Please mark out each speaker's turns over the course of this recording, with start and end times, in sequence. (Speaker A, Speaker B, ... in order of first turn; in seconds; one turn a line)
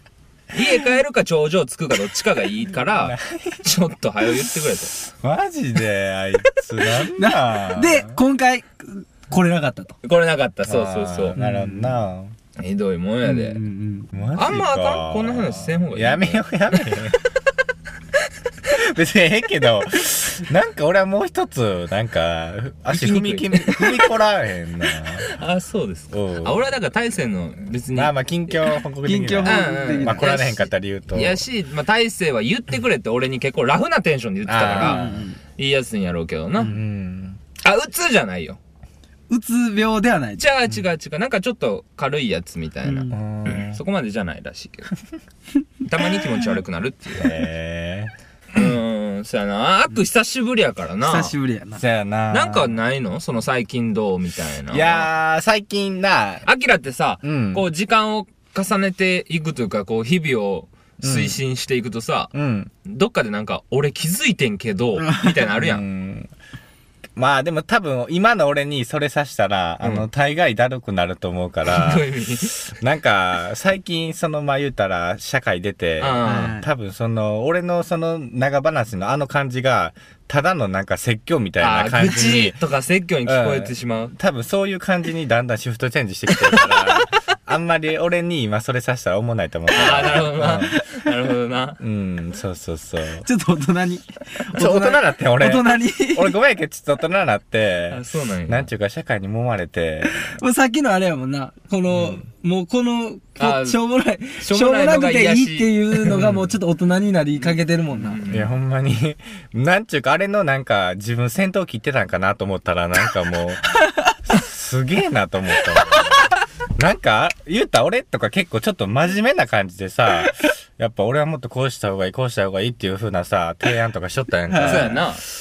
Speaker A: 0.5-4.9
Speaker B: 3.0-3.6
Speaker B: 5.1-8.2
Speaker C: 7.1-9.9
Speaker A: 10.0-11.3
Speaker B: 10.7-12.3
Speaker C: 11.3-12.0
Speaker A: 12.6-13.6
Speaker C: 13.2-14.1
Speaker B: 14.1-17.2
Speaker A: 14.3-17.1
Speaker B: 18.6-25.3
Speaker A: 22.9-23.9
Speaker A: 25.1-28.6
Speaker B: 26.1-26.6
Speaker B: 27.9-31.4
Speaker C: 29.0-30.3
Speaker A: 29.4-36.8
Speaker B: 34.5-35.2
Speaker C: 34.8-35.4
Speaker B: 36.6-37.4
Speaker A: 37.6-38.6
Speaker C: 39.3-40.4
Speaker A: 40.4-44.9
Speaker C: 42.8-43.1
Speaker B: 43.1-43.8
Speaker A: 45.9-47.3
Speaker B: 47.2-48.1
Speaker A: 48.5-51.3
Speaker C: 51.0-51.8
Speaker B: 51.7-52.8
Speaker A: 52.3-55.1
Speaker B: 54.7-56.5
Speaker A: 56.5-62.3
Speaker B: 57.2-57.6
Speaker B: 61.0-61.4
Speaker B: 62.3-62.7
Speaker A: 62.8-65.8
Speaker B: 65.5-66.3
Speaker B: 67.2-72.1
Speaker A: 69.8-70.0
Speaker A: 71.6-72.5
Speaker B: 72.6-82.6
Speaker A: 76.0-76.6
Speaker C: 76.2-76.7
Speaker A: 81.6-84.1
Speaker B: 83.2-91.1
Speaker A: 86.5-86.9
Speaker A: 89.7-91.8
Speaker B: 91.8-93.2
Speaker C: 93.2-96.3
Speaker B: 94.5-100.2
Speaker A: 97.9-98.7
Speaker C: 100.1-108.2
Speaker B: 101.9-102.2
Speaker A: 103.4-106.2
Speaker B: 106.1-106.5
Speaker A: 107.4-108.5
Speaker B: 108.3-125.1
Speaker C: 124.5-125.0
Speaker A: 124.6-125.2